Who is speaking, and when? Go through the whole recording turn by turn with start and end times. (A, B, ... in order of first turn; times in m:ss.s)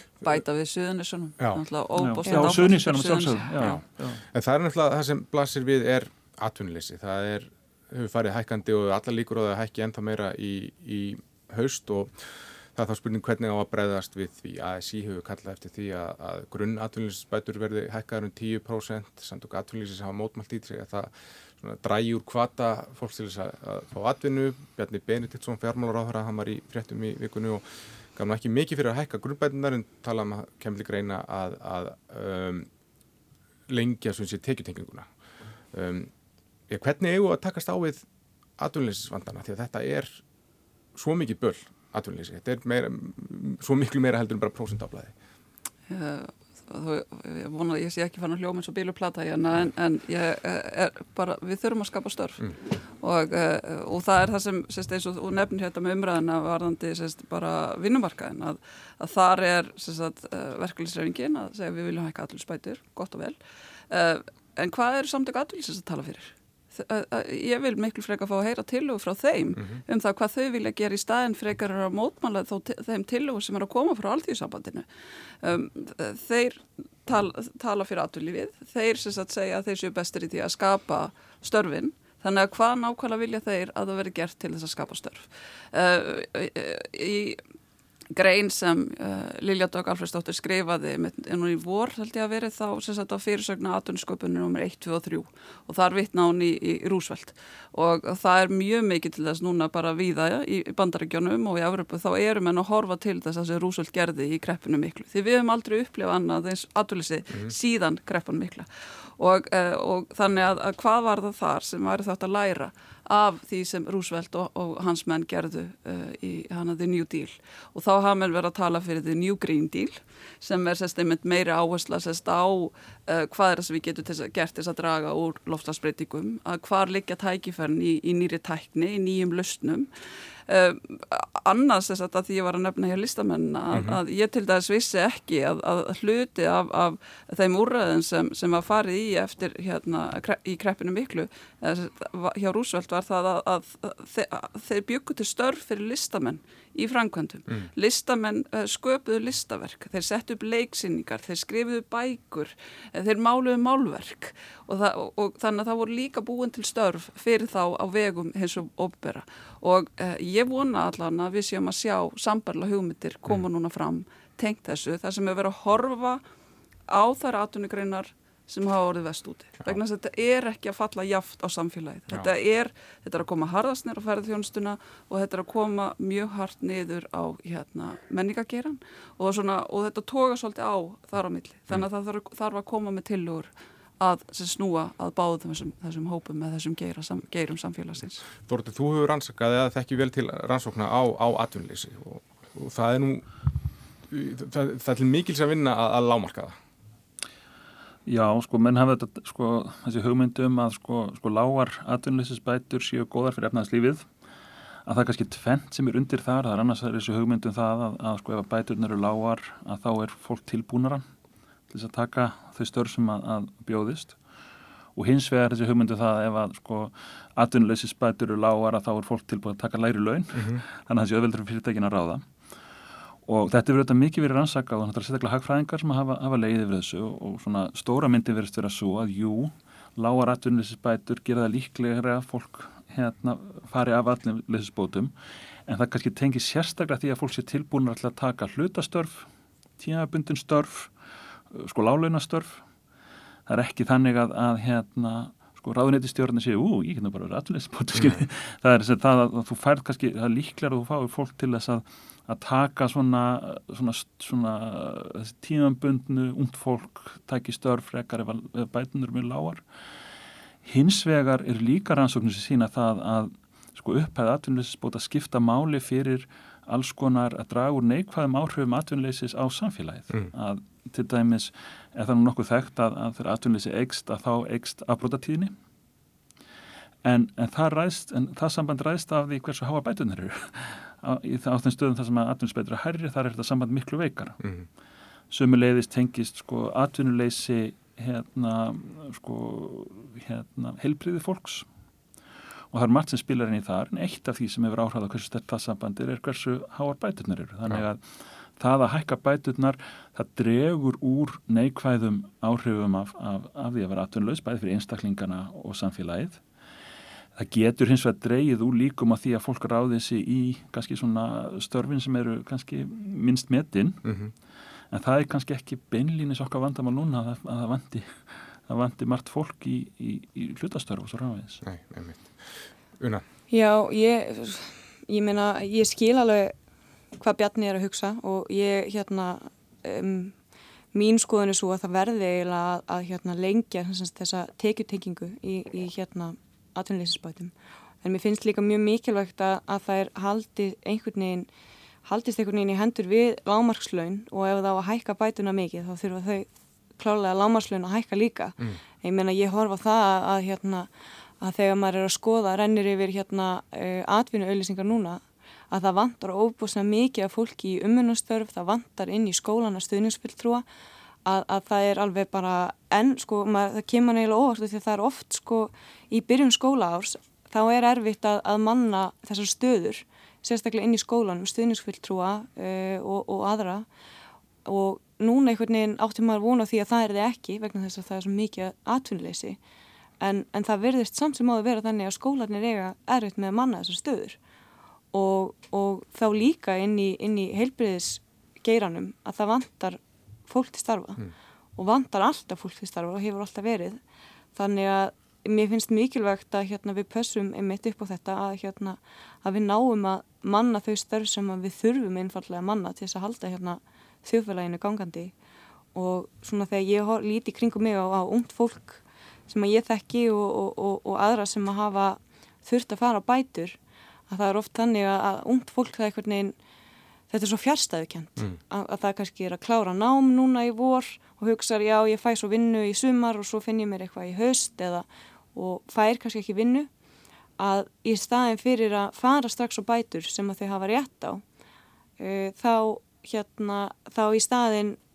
0:00.2-0:03.8 A
0:02.0-0:04.2 B
0:04.3-0:27.6 C
0:28.1-0:32.7 C
0:33.7-0:35.1 C
0:35.7-0:36.1 C
0:36.7-0:38.0 C
0:38.6-0:40.2 C
0:40.9-0:45.1 C
0:45.9-1:03.4 A
1:03.9-1:14.9 A
1:15.4-1:27.4 A
1:28.1-2:09.9 A
2:10.5-2:46.2 A
2:13.7-2:14.0 C
2:46.9-3:08.2 A
3:08.4-3:13.2 C
3:14.1-3:16.6 C
3:18.0-3:24.1 B
3:24.8-3:31.0 B
3:31.7-3:34.2 B
3:34.9-3:42.3 B
3:40.4-3:40.6 C
3:43.2-3:55.1 B
3:55.6-3:59.3 B
3:59.8-4:00.9 B
4:01.5-4:02.6 B
4:03.5-4:19.6 B
4:08.0-4:08.2 C
4:20.6-4:35.5 B
4:37.0-4:44.4 B
4:44.4-4:44.6 C
4:45.3-4:51.6 B
4:52.7-4:58.0 B
4:58.6-5:06.4 B
5:07.4-5:14.1 B
5:14.0-5:14.3 C
5:14.9-5:21.6 B
5:21.6-5:22.4 C
5:23.0-5:23.2 C
5:23.5-5:26.5 D
5:27.2-5:30.4 D
5:30.9-5:41.5 D
5:42.0-5:50.9 D
5:51.4-6:00.6 D
6:01.2-6:13.8 D
6:14.6-6:19.6 D
6:20.2-6:24.4 D
6:25.1-6:31.2 D
6:31.8-6:34.0 D
6:34.5-6:45.3 D
6:45.9-6:53.8 D
6:54.3-6:56.5 D
6:57.3-7:06.9 D
7:07.6-7:11.4 D
7:12.2-7:15.0 D